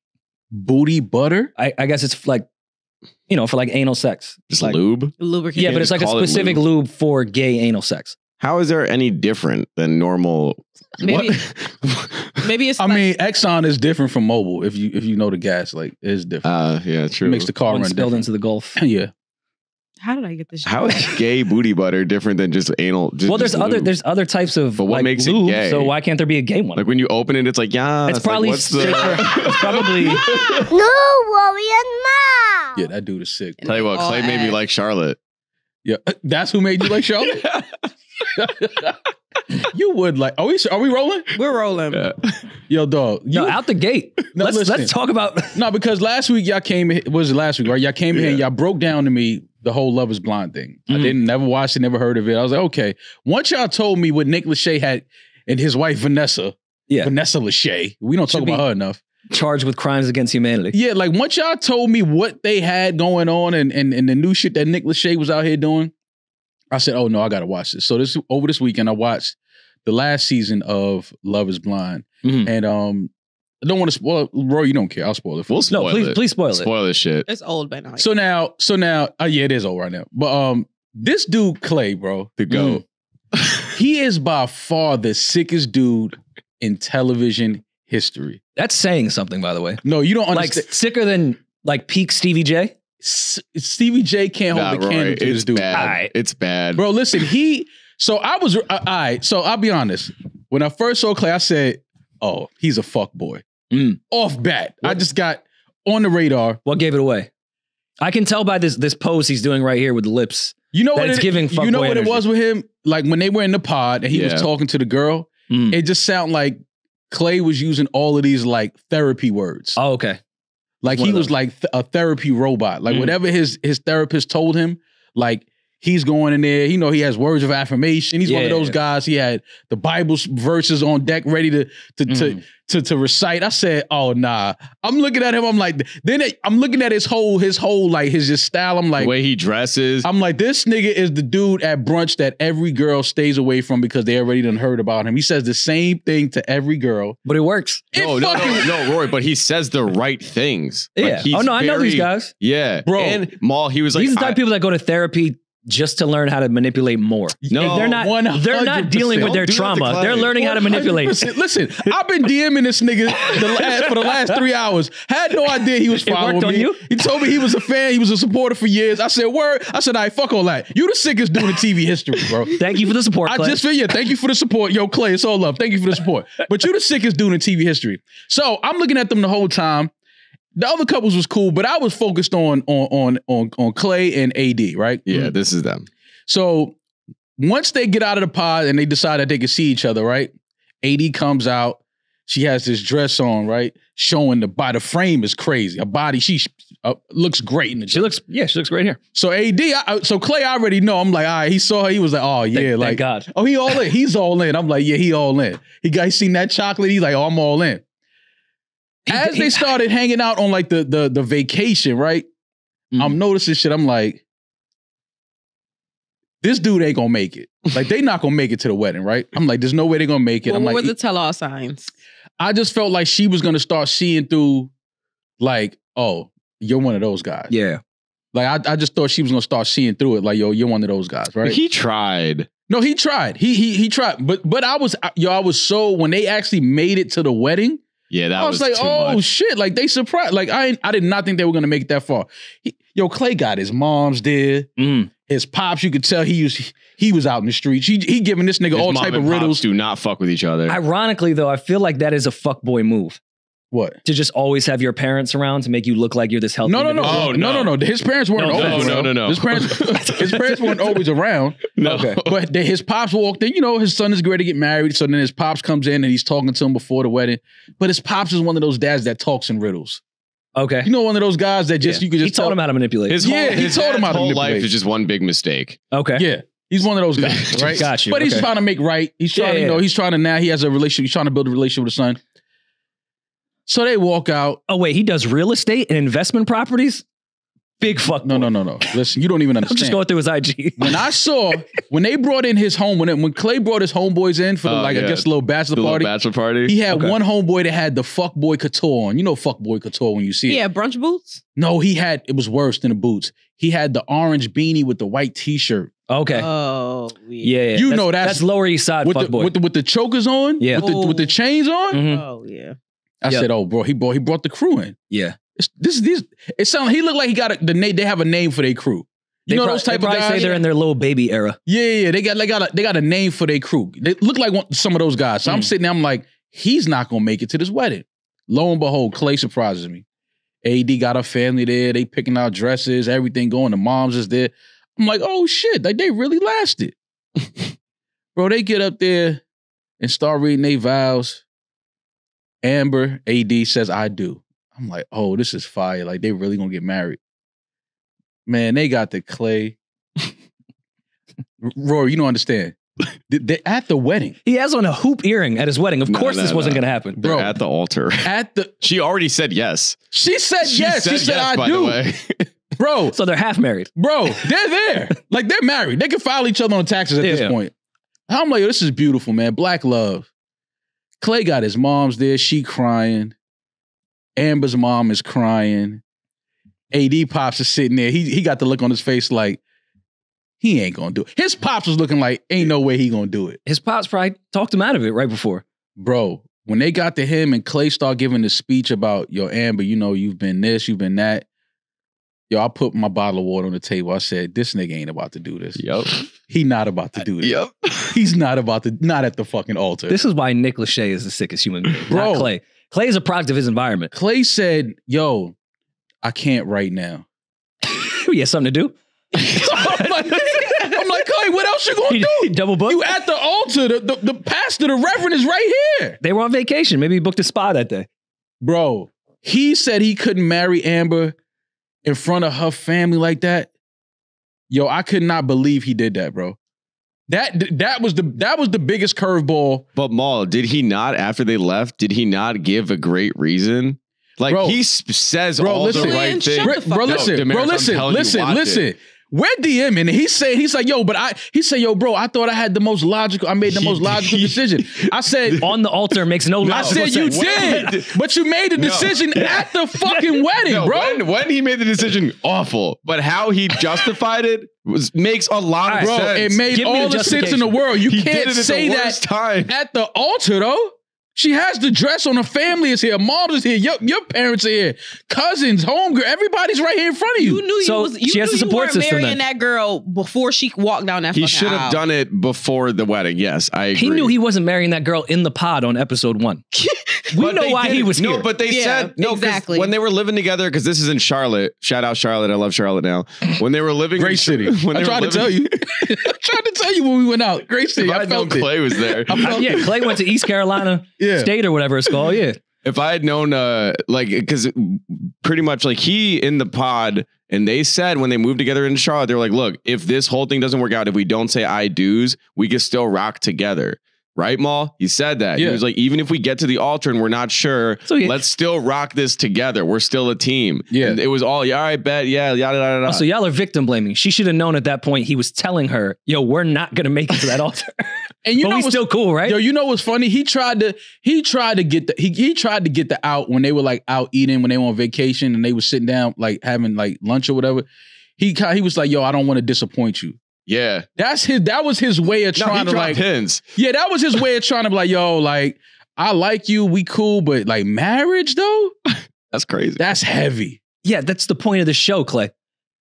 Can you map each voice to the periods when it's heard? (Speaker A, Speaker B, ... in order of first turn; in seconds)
Speaker A: 0.5-1.5, 12.8-16.5, 17.2-19.1, 28.8-29.5, 32.7-33.6, 35.8-37.5, 38.4-39.0, 39.7-41.3, 42.7-43.6, 44.3-44.9, 45.5-59.0, 60.7-65.9, 66.7-73.1, 73.6-75.6, 78.0-82.8, 83.7-88.4, 89.8-90.7, 93.0-95.7, 96.8-103.4, 104.1-106.6, 110.7-119.8, 120.8-139.1, 140.0-147.2, 147.9-148.9, 152.8-153.2, 157.4-159.6, 160.3-172.5, 173.2-179.9, 180.5-185.3, 186.3-186.8, 187.4-198.1, 199.1-207.8, 209.1-212.3, 213.0-214.2, 216.4-220.9, 222.4-224.7, 225.4-227.5, 228.3-231.6, 232.7-237.8, 238.3-244.7, 245.3-249.6, 253.7-254.0, 256.6-270.0, 270.8-272.6, 273.2-274.7, 276.1-282.2, 283.7-284.6, 288.2-290.0, 290.8-296.1, 296.6-300.6, 301.6-305.9, 307.7-308.5, 309.0-312.0, 313.2-314.9, 315.6-320.5, 321.7-330.0, 330.6-336.9, 338.4-339.4, 340.0-341.4, 342.6-347.2, 348.4-349.8, 351.6-352.8, 353.3-354.4, 357.2-357.6, 358.2-358.7, 360.1-362.0, 362.8-363.1, 364.0-367.7, 368.3-370.3, 371.2-373.3, 374.4-376.0, 376.9-379.6, 380.6-383.6, 386.0-391.4, 392.5-395.8, 396.5-400.2, 402.1-402.5, 404.1-405.6, 406.2-407.2, 409.3-416.2, 418.6-421.3, 422.0-423.7, 424.7-426.6, 427.3-429.9, 434.5-434.8, 435.6-445.7, 446.6-451.2, 456.0-467.6, 484.1-490.1, 491.2-491.5, 505.6-505.8, 510.9-511.2, 518.4-527.9, 528.4-530.4, 531.2-533.2, 533.7-538.9, 540.0-540.8
Speaker B: 1.6-2.5, 3.3-4.8, 5.5-8.2, 17.7-18.8, 23.3-26.8, 28.1-30.2, 43.3-45.6, 50.9-51.1, 58.3-58.6, 59.3-60.7, 72.2-72.5, 75.7-76.7, 88.6-92.7, 95.7-96.1, 103.7-104.0, 106.7-107.3, 108.0-112.2, 115.5-115.8, 119.8-120.2, 120.9-121.3, 128.2-128.8, 132.1-132.4, 147.2-147.8, 150.9-152.3, 153.9-161.2, 163.3-164.4, 166.0-166.8, 172.6-173.6, 197.9-199.0, 202.5-203.3, 209.1-209.7, 227.5-227.8, 244.8-245.1, 250.7-253.2, 254.0-257.4, 258.4-259.1, 259.8-260.4, 261.8-262.2, 270.6-270.9, 271.8-273.2, 275.9-276.2, 277.8-278.5, 279.3-279.8, 284.7-287.0, 287.8-288.5, 289.6-290.9, 296.9-297.1, 306.1-306.5, 307.4-309.5, 310.6-310.9, 311.9-312.2, 315.1-315.4, 319.5-321.6, 354.4-357.2, 363.1-363.9, 367.2-367.6, 383.6-385.6, 400.1-404.1, 407.9-411.0, 412.1-413.1, 416.2-418.1, 445.6-447.9, 450.1-450.4, 455.8-456.1, 456.7-457.8, 467.8-469.4, 473.9-476.6, 477.3-478.5, 489.4-492.6, 508.1-508.4, 513.0-519.6, 541.0-542.5
Speaker C: 4.5-6.6, 8.4-12.3, 16.4-17.5, 20.6-23.9, 24.8-25.9, 26.8-30.2, 33.6-35.2, 48.1-48.4, 75.5-77.3, 82.4-82.8, 94.5-96.8, 114.1-114.5, 139.0-140.1, 147.9-154.4, 157.5-158.0, 159.2-160.4, 185.1-185.9, 231.4-232.5, 238.1-239.2, 248.7-250.8, 257.0-257.7, 258.5-260.0, 261.8-262.3, 273.1-275.8, 277.3-277.9, 294.6-296.7, 356.1-358.3, 358.8-360.0, 360.6-362.4, 395.8-396.2, 397.4-398.1, 429.9-438.8, 443.7-445.5, 446.6-448.1, 448.8-449.6, 450.6-456.6, 458.1-459.7, 471.3-474.3, 477.4-485.7, 488.0-489.9, 492.8-513.2, 530.7-531.1, 532.5-533.6, 539.1-540.1
Speaker D: 5.2-5.9, 11.0-11.4, 12.4-13.1, 20.0-21.2, 33.6-34.6, 41.3-42.1, 77.3-78.1, 220.4-221.9, 300.5-301.4, 306.3-307.5, 310.8-311.4, 311.9-312.8, 320.3-320.6, 435.9-437.4, 467.4-472.0, 476.7-477.2, 478.7-479.9
Speaker E: 30.6-32.8